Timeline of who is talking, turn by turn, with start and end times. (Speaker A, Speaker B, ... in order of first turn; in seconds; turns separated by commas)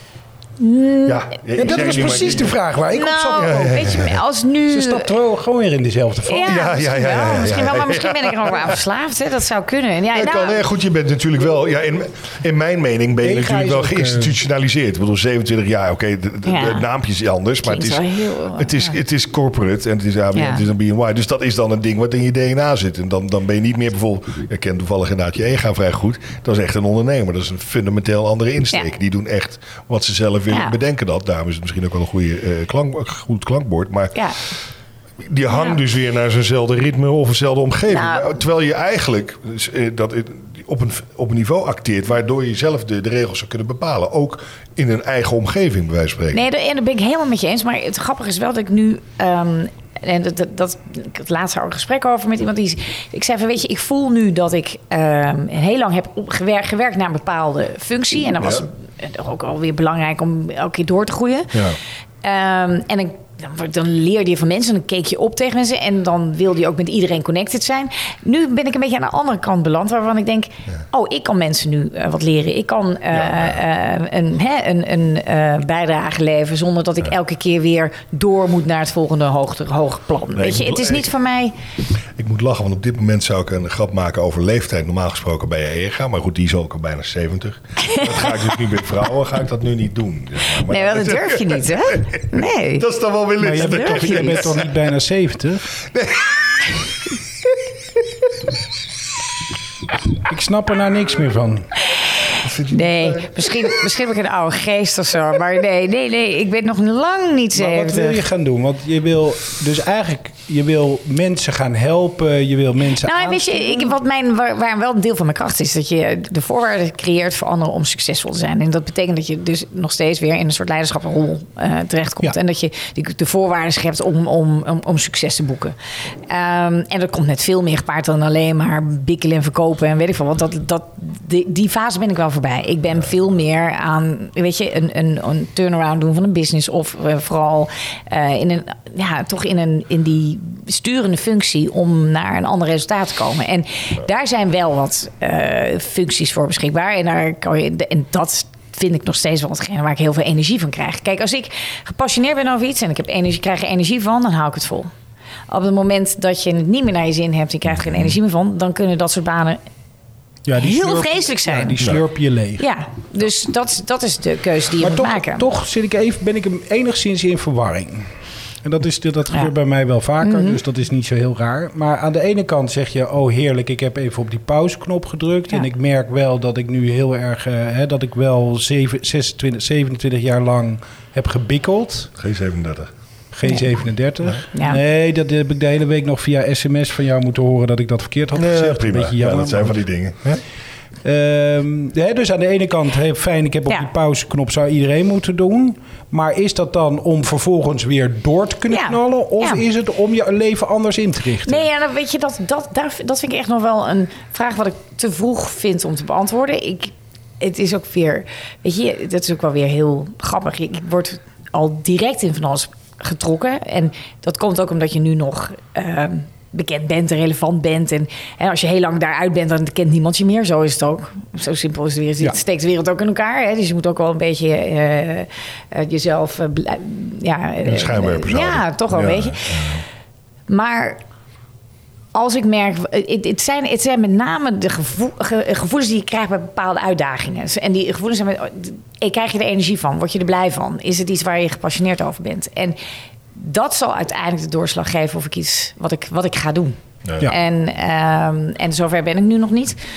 Speaker A: 0.6-1.4, Speaker B: 1.1-2.6, Speaker C: 1.6-4.1, Speaker A: 2.9-5.1, Speaker B: 3.4-4.2, Speaker C: 4.7-6.6, Speaker A: 6.3-10.7, Speaker B: 6.5-8.8, Speaker B: 10.1-34.2, Speaker C: 13.2-14.3, Speaker A: 16.4-16.9, Speaker A: 17.6-18.9, Speaker A: 20.3-20.6, Speaker A: 30.5-30.8, Speaker B: 35.2-46.4, Speaker A: 35.5-35.8, Speaker A: 37.9-38.3, Speaker A: 46.3-81.6, Speaker B: 73.1-73.6, Speaker B: 80.3-81.1, Speaker B: 82.2-94.6, Speaker A: 87.8-88.2, Speaker A: 90.7-92.9, Speaker C: 93.4-95.7, Speaker A: 93.4-94.5, Speaker B: 95.9-96.8, Speaker C: 100.2-101.7, Speaker A: 102.2-108.2, Speaker B: 102.4-103.8, Speaker C: 107.5-113.9, Speaker A: 113.0-125.8, Speaker A: 126.3-154.9, Speaker A: 155.5-159.6, Speaker C: 160.5-162.7, Speaker A: 160.6-161.9, Speaker A: 162.6-165.5, Speaker C: 164.8-168.1, Speaker C: 168.6-182.1, Speaker A: 170.2-170.6, Speaker B: 182.2-182.9, Speaker C: 183.3-189.8, Speaker A: 184.5-184.8, Speaker B: 188.3-190.4, Speaker C: 191.0-201.7, Speaker A: 198.7-199.6, Speaker A: 201.4-229.8, Speaker B: 227.6-229.8, Speaker A: 230.5-231.0, Speaker A: 232.1-242.8, Speaker A: 243.3-249.8